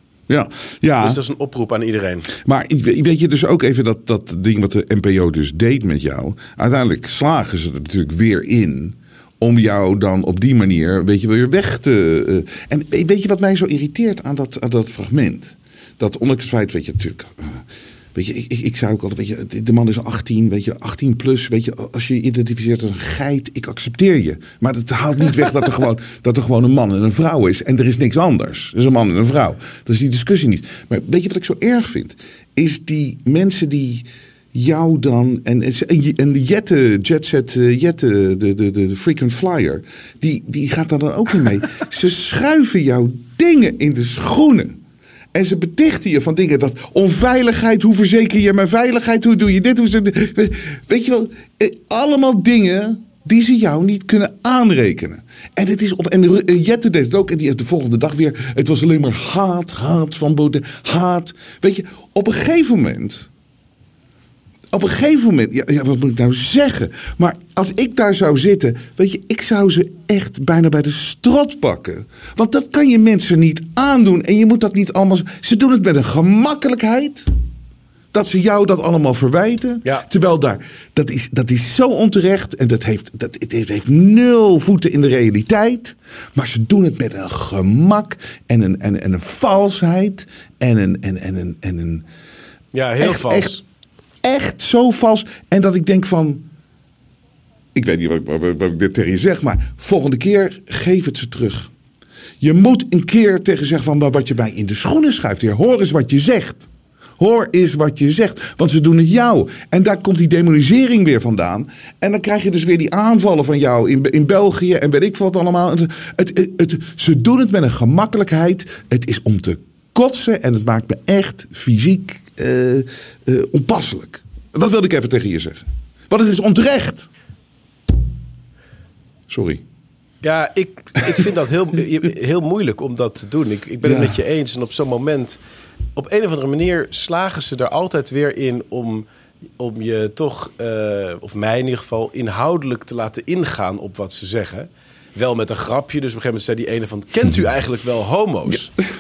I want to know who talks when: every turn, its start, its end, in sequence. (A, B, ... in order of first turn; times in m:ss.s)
0:00.3-0:01.2 A
0:01.0-0:02.3 B
0:02.3-0:44.8 A
0:45.3-1:03.3 A
1:04.7-1:17.3 A
1:18.1-1:32.1 A
1:32.7-1:33.6 B
1:33.0-1:33.6 A
1:34.2-1:36.4 A
1:37.7-1:41.7 A
1:42.4-2:07.1 A
2:09.3-2:09.6 A
2:10.2-2:15.4 B
2:13.8-2:14.2 A
2:16.0-2:19.1 B
2:19.6-2:28.7 B